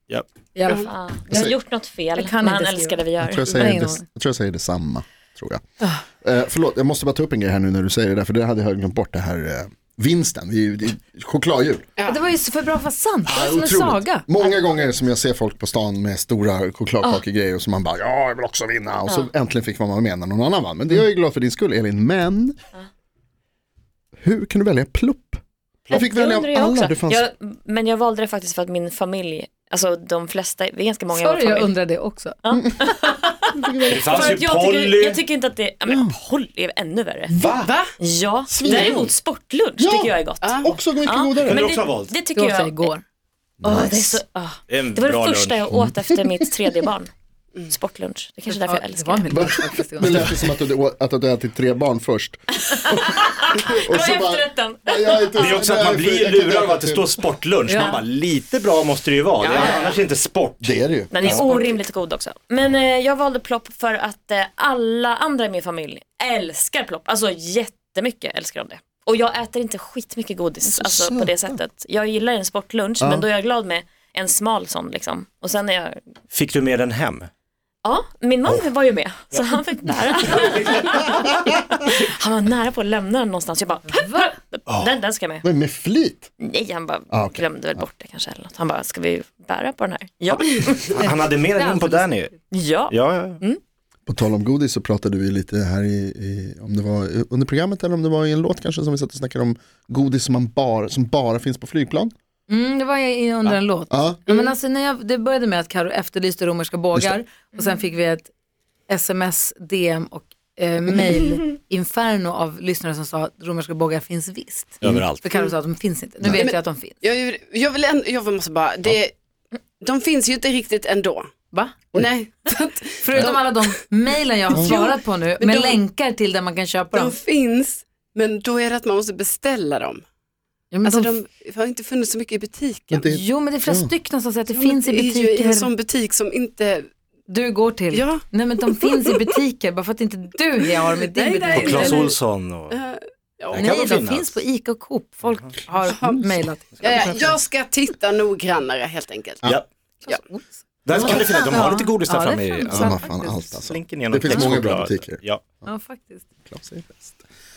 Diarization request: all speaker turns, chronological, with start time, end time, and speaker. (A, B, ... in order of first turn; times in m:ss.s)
0:00.1-0:00.7 A
0:00.5-0:00.9 B
0:00.8-0:03.6 C
0:01.3-0:01.6 D
0:02.1-0:04.0 B
0:03.2-0:05.6 D
0:06.2-0:11.8 D
0:12.0-0:14.3 B
0:13.2-0:22.6 D
0:24.2-0:27.2 D
0:25.9-0:31.8 C
0:31.1-0:32.4 B
0:32.4-0:37.4 C
0:33.5-0:34.4 D
0:33.9-0:35.2 A
0:35.9-0:36.2 D
0:37.3-0:37.7 D
0:37.6-0:37.9 E
0:38.0-0:42.9 C
0:38.5-0:39.1 D
0:38.6-0:39.0 E
0:39.8-0:41.7 D
0:40.4-0:40.7 E
0:41.4-0:42.2 A
0:42.3-0:43.0 B
0:43.6-0:44.2 D
0:43.6-0:47.1 C
0:44.7-0:45.7 A
0:45.8-0:46.4 D
0:47.7-0:49.5 C
0:48.5-0:50.4 B
0:49.3-0:57.1 D
0:52.7-0:55.7 C
0:55.4-1:01.4 A
0:57.7-0:58.0 B
0:59.4-1:00.0 C
1:00.6-1:01.5 D
1:01.1-1:16.0 C
1:10.6-1:11.6 D
1:13.0-1:13.3 D
1:16.3-1:17.3 A
1:17.8-1:25.4 C
1:20.1-1:21.3 A
1:23.9-1:24.3 B
1:24.7-1:25.0 A
1:25.4-1:26.3 D
1:26.4-1:31.0 C
1:27.1-1:27.9 D
1:30.9-1:32.4 A
1:31.0-1:32.4 B
1:32.5-1:33.6 C
1:32.9-1:33.4 A
1:34.1-1:42.1 D
1:42.5-1:48.3 B
1:43.9-1:44.2 D
1:48.9-1:57.0 B
1:54.8-1:55.3 A
1:56.3-1:59.1 E
1:59.8-2:01.3 E
2:01.5-2:01.8 B
2:01.9-2:03.7 E
2:03.0-2:07.1 B
2:04.5-2:05.8 E
2:06.9-2:10.0 E
2:10.7-2:11.1 B
2:10.8-2:13.1 E
2:12.9-2:13.9 D
2:13.0-2:15.7 B
2:14.5-2:16.8 E
2:17.3-2:22.1 B
2:17.9-2:19.1 E
2:21.0-2:22.2 E
2:21.5-2:22.8 A
2:22.7-2:23.7 E
2:23.5-2:24.4 A
2:23.6-2:27.3 B
2:25.9-2:26.3 E
2:26.8-2:27.3 A
2:26.8-2:29.5 E
2:30.0-2:33.5 B
2:30.8-2:33.0 A
2:30.9-2:31.3 D
2:32.7-2:35.2 D
2:33.5-2:35.4 A
2:35.6-2:36.2 B
2:36.4-2:37.2 D